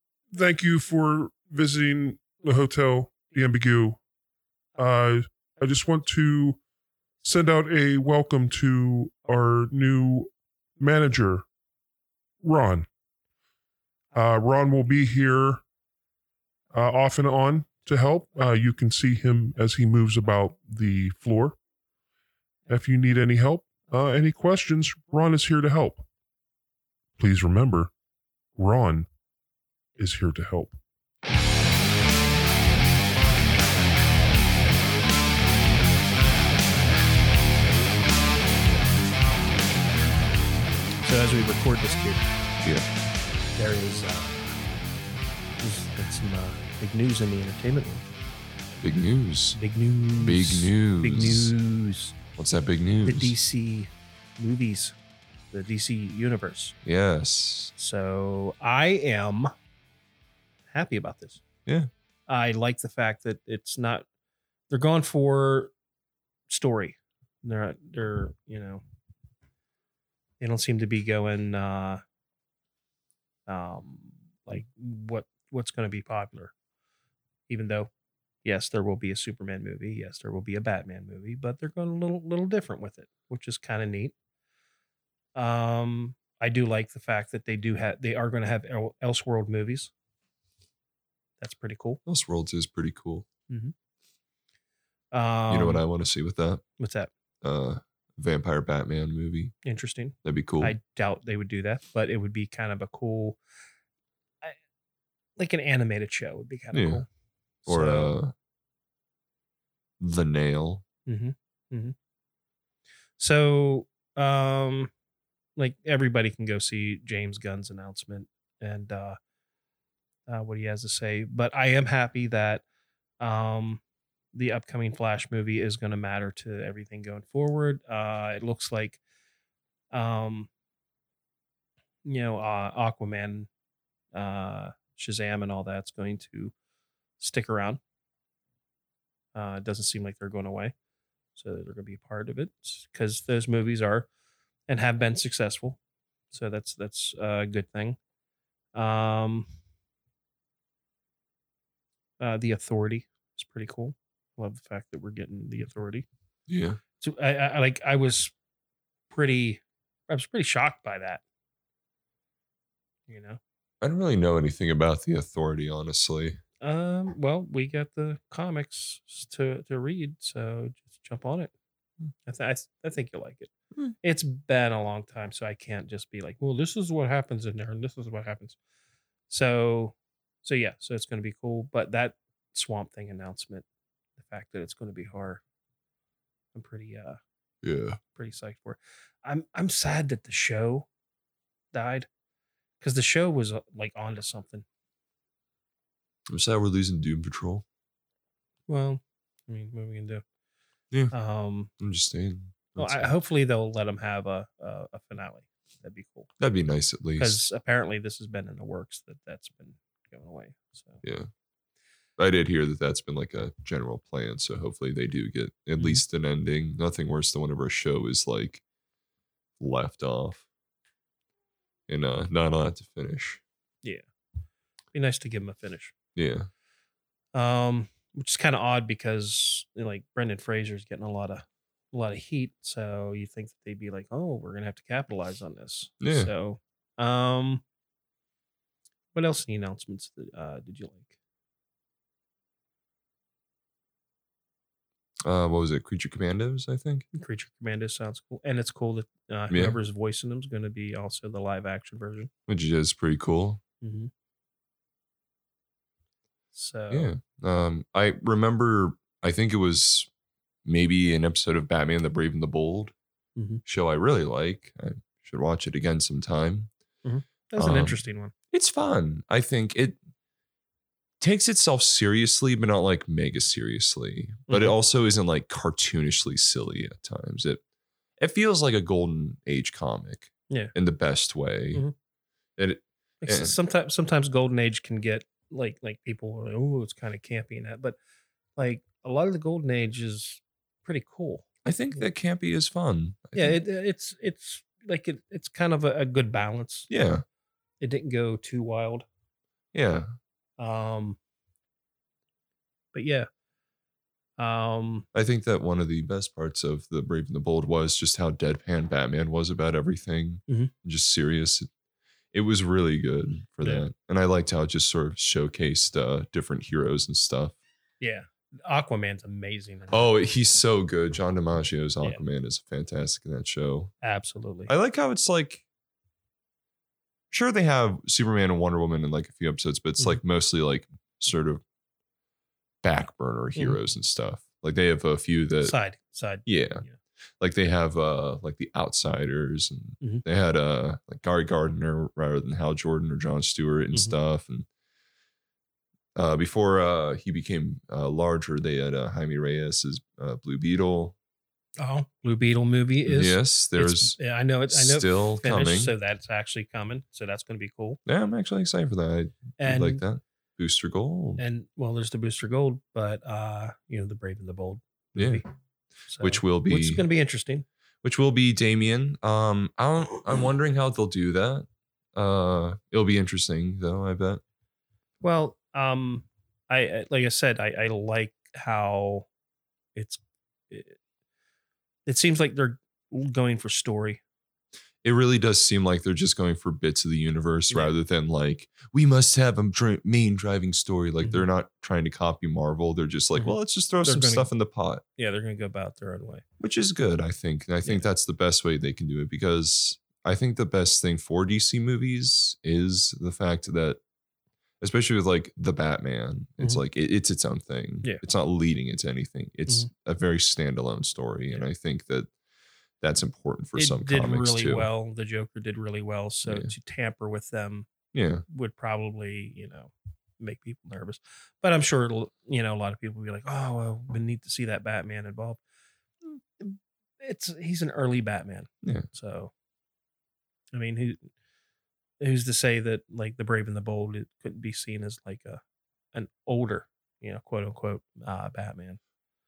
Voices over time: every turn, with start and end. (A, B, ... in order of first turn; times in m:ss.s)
0:00.3-0:04.0 A
0:04.8-0:06.6 A
0:07.2-0:11.4 A
0:12.4-0:12.9 A
0:14.1-0:15.6 A
0:16.7-0:21.6 A
0:22.7-0:26.0 A
0:27.2-0:27.9 A
0:28.6-0:29.1 A
0:30.0-0:30.8 A
0:41.0-0:42.3 B
0:43.6-0:44.6 B
0:45.6-0:48.0 B
0:48.8-0:49.6 C
0:49.6-0:52.2 B
0:50.2-0:51.5 C
0:52.4-0:53.3 C
0:53.0-0:55.0 B
0:55.5-0:56.8 B
0:56.8-0:57.7 C
0:57.8-0:59.5 B
1:00.7-1:01.4 B
1:02.3-1:04.1 B
1:04.7-1:05.7 B
1:06.5-1:08.8 B
1:10.4-1:12.0 B
1:13.5-1:16.5 B
1:17.5-1:17.9 B
1:18.4-1:24.1 B
1:25.4-1:29.9 B
1:31.4-1:32.0 B
1:32.1-1:33.3 C
1:33.5-1:33.7 B
1:35.1-1:35.8 B
1:35.5-1:36.6 C
1:36.8-1:37.1 B
1:37.4-1:39.5 C
1:39.6-1:43.4 B
1:40.2-1:40.8 C
1:45.4-1:47.1 B
1:46.7-1:47.0 C
1:47.6-1:48.2 B
1:47.7-1:48.3 C
1:50.0-1:50.8 C
1:51.1-1:52.0 B
1:53.2-1:54.9 B
1:55.6-1:59.2 B
2:00.3-2:02.6 B
2:03.2-2:03.8 B
2:04.3-2:09.0 B
2:09.9-2:10.5 B
2:12.0-2:13.5 B
2:14.1-2:16.5 B
2:17.2-2:17.8 B
2:19.3-2:20.7 B
2:21.4-2:24.1 B
2:24.7-2:25.8 B
2:26.3-2:28.0 B
2:28.7-2:29.5 B
2:32.2-2:36.1 B
2:36.5-2:36.8 C
2:37.0-2:38.3 B
2:39.1-2:41.2 B
2:43.1-2:43.4 B
2:43.8-2:46.4 C
2:46.6-2:51.5 B
2:52.3-2:53.5 B
2:54.0-2:58.6 B
2:59.3-3:03.6 B
3:04.2-3:05.4 B
3:06.5-3:07.2 B
3:07.6-3:08.0 C
3:08.1-3:10.9 B
3:11.7-3:12.1 B
3:12.8-3:14.6 B
3:16.3-3:17.6 C
3:18.7-3:20.2 B
3:21.1-3:21.7 B
3:21.8-3:23.1 C
3:22.8-3:26.3 B
3:26.4-3:27.4 C
3:27.2-3:31.0 B
3:31.0-3:31.3 C
3:32.2-3:38.6 C
3:39.6-3:40.4 C
3:41.9-3:43.4 C
3:44.9-3:46.0 B
3:46.2-3:46.5 C
3:47.3-3:57.6 B
3:56.0-3:56.3 C
3:59.1-4:01.1 B
4:05.2-4:07.1 C
4:07.1-4:12.3 B
4:09.5-4:09.8 C
4:12.5-4:13.6 C
4:13.8-4:14.1 B
4:16.5-4:17.1 B
4:16.9-4:20.1 C
4:20.6-4:22.9 C
4:23.4-4:23.6 B
4:23.6-4:26.7 C
4:27.0-4:28.3 B
4:27.6-4:28.0 C
4:28.5-4:30.0 C
4:31.2-4:37.6 C
4:34.5-4:34.8 B
4:38.2-4:41.8 C
4:42.6-4:43.6 C
4:43.2-4:48.0 B
4:48.6-4:52.0 B
4:51.6-4:53.6 C
4:53.3-4:56.9 B
4:56.9-4:57.2 C
4:57.8-4:59.1 B
4:59.7-5:00.1 C
5:00.6-5:01.2 B
5:02.9-5:03.3 B
5:04.4-5:05.1 B
5:05.1-5:11.7 C
5:12.3-5:17.6 C
5:18.0-5:20.2 B
5:19.9-5:23.9 C
5:24.0-5:24.7 B
5:24.7-5:25.6 C
5:27.3-5:31.6 C
5:32.8-5:35.8 C
5:35.6-5:37.0 B
5:36.5-5:36.8 C
5:37.4-5:44.7 C
5:46.2-5:51.2 C
5:51.8-5:58.0 B
5:53.1-5:54.2 C
5:54.7-5:56.0 C
5:58.1-6:01.4 C
5:59.6-6:00.0 B
6:01.4-6:05.5 B
6:05.2-6:05.4 C
6:06.1-6:07.7 B
6:06.2-6:07.0 C
6:08.0-6:14.4 C
6:15.2-6:19.3 B
6:20.0-6:21.0 B
6:22.1-6:24.2 B
6:25.0-6:35.0 C
6:33.4-6:34.5 B
6:35.2-6:36.4 B
6:36.6-6:44.0 C
6:44.8-6:52.3 C
6:53.0-6:54.9 C
6:53.8-6:57.9 B
6:56.5-6:56.7 C
6:58.1-6:58.4 C
6:58.5-7:05.6 B
7:06.6-7:09.5 B
7:10.7-7:11.3 B
7:12.2-7:15.6 B
7:16.1-7:19.0 B